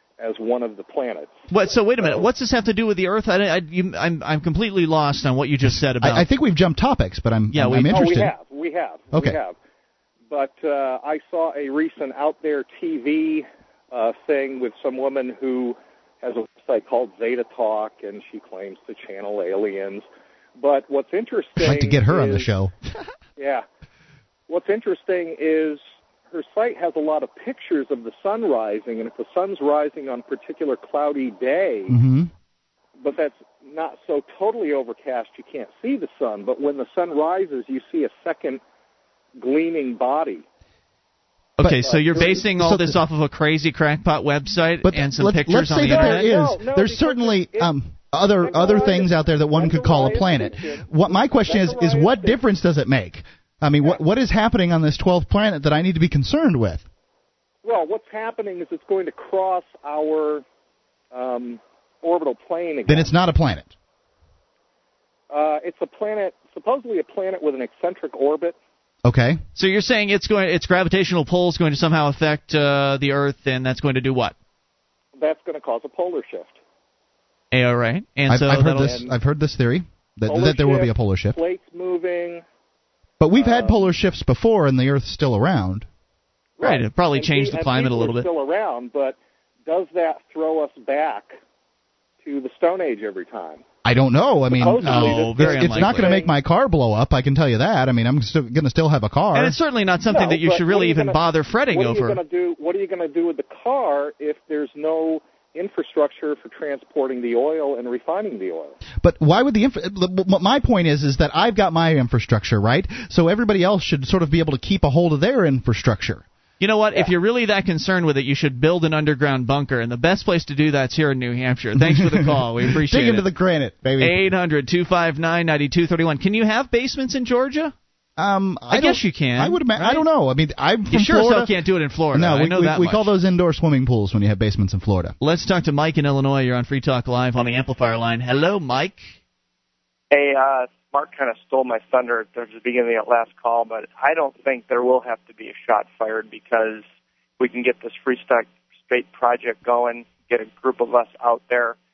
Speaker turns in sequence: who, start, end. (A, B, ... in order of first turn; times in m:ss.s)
0:00.2-0:01.4 A
0:01.5-0:06.2 B
0:02.0-0:02.2 A
0:06.0-0:08.3 C
0:07.5-0:08.3 B
0:07.9-0:09.6 A
0:09.1-0:09.4 C
0:10.3-0:20.0 A
0:20.6-0:22.5 A
0:21.6-0:22.7 C
0:23.4-0:23.6 A
0:24.5-0:32.0 A
0:31.9-0:32.3 C
0:33.0-0:38.6 A
0:39.4-0:40.4 A
0:41.6-0:46.3 B
0:41.6-0:42.4 A
0:41.6-0:43.0 C
0:44.8-0:56.8 C
0:45.8-0:52.4 A
0:57.6-1:00.4 A
1:01.1-1:03.1 A
1:02.9-1:03.7 C
1:05.3-1:08.6 A
1:09.0-1:09.4 C
1:09.6-1:14.3 B
1:15.2-1:16.6 A
1:17.5-1:19.1 B
1:18.3-1:21.4 C
1:18.7-1:19.1 A
1:20.3-1:22.4 A
1:23.2-1:25.9 C
1:23.3-1:23.8 A
1:26.6-1:31.4 A
1:26.6-1:28.3 B
1:32.2-1:33.6 A
1:33.8-1:39.6 C
1:34.5-1:36.3 A
1:34.7-1:36.2 B
1:39.3-1:42.2 B
1:40.0-1:41.2 A
1:41.7-1:48.8 A
1:49.0-1:56.2 C
1:56.6-2:03.3 B
2:01.8-2:04.2 C
2:04.0-2:07.7 B
2:08.2-2:11.6 C
2:08.7-2:10.0 B
2:10.9-2:13.1 B
2:12.1-2:15.1 C
2:15.2-2:19.1 B
2:20.1-2:26.8 D
2:27.4-2:31.8 D